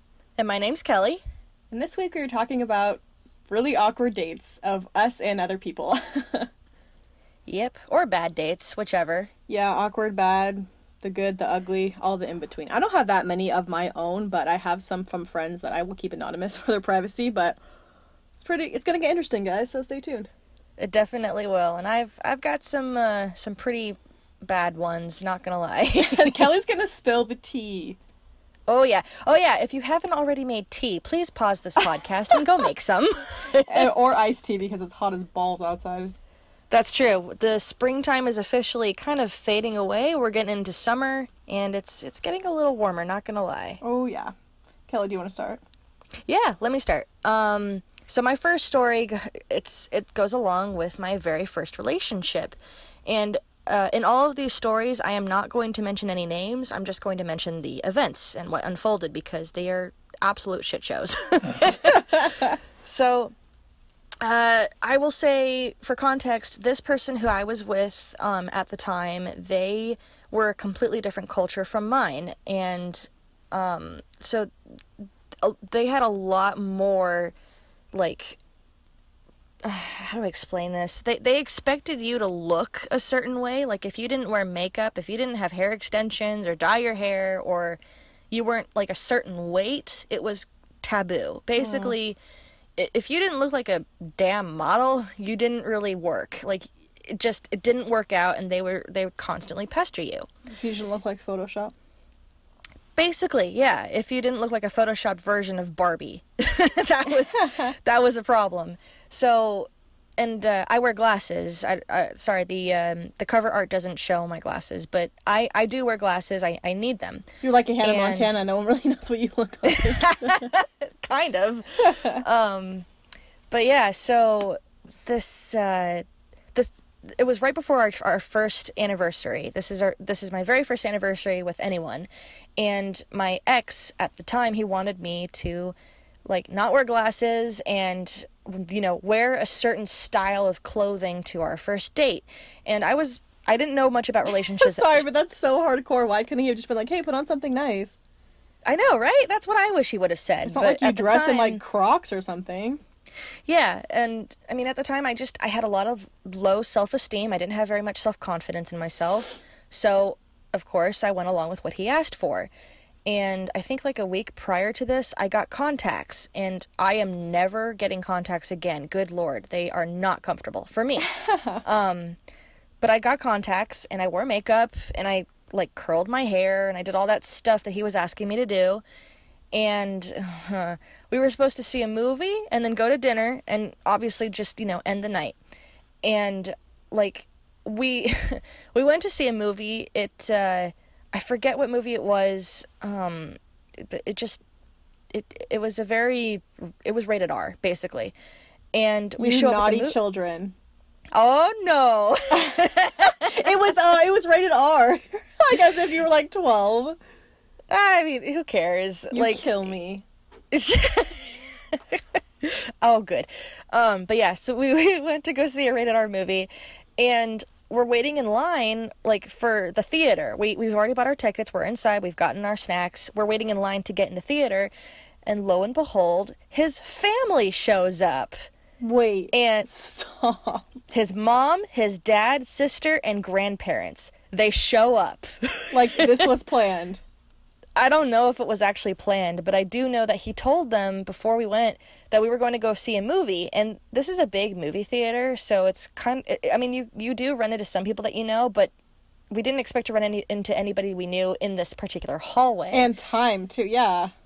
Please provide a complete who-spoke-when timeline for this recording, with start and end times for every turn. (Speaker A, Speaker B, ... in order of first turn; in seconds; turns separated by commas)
Speaker A: 0.4-1.2, Speaker B: 1.7-6.5, Speaker A: 7.5-9.3, Speaker B: 9.5-17.6, Speaker B: 18.4-20.3, Speaker A: 20.8-26.4, Speaker B: 26.0-28.0, Speaker A: 28.7-33.9, Speaker B: 33.6-36.1, Speaker A: 36.7-43.8, Speaker B: 43.8-44.3, Speaker B: 44.9-45.6, Speaker A: 46.3-63.3, Speaker B: 62.0-62.5, Speaker A: 64.2-74.5, Speaker A: 75.4-77.3, Speaker A: 77.9-78.4, Speaker A: 79.6-87.8, Speaker A: 88.3-92.2, Speaker B: 91.6-91.9, Speaker A: 92.8-100.3, Speaker B: 100.5-101.7, Speaker A: 103.0-117.3, Speaker B: 107.4-107.7, Speaker B: 117.4-120.5, Speaker A: 117.8-118.3, Speaker A: 119.7-122.8, Speaker B: 121.8-122.2, Speaker A: 123.5-135.7, Speaker A: 136.3-145.0, Speaker B: 144.3-148.0, Speaker A: 148.7-151.6, Speaker B: 150.4-152.8, Speaker A: 153.5-162.5, Speaker A: 163.1-171.1, Speaker B: 171.0-171.6, Speaker A: 171.6-172.2, Speaker A: 172.8-178.8, Speaker A: 179.5-185.3, Speaker A: 186.0-194.4, Speaker A: 195.1-198.1, Speaker A: 198.7-199.9, Speaker B: 199.2-200.5, Speaker A: 201.1-203.3, Speaker B: 203.2-207.0, Speaker A: 207.7-209.5, Speaker B: 209.1-210.0, Speaker A: 210.5-224.7, Speaker A: 225.2-228.3, Speaker B: 228.8-230.7, Speaker A: 229.3-229.7, Speaker A: 230.9-236.2, Speaker B: 235.7-237.0, Speaker A: 237.8-248.7, Speaker A: 249.3-252.9, Speaker B: 252.7-254.1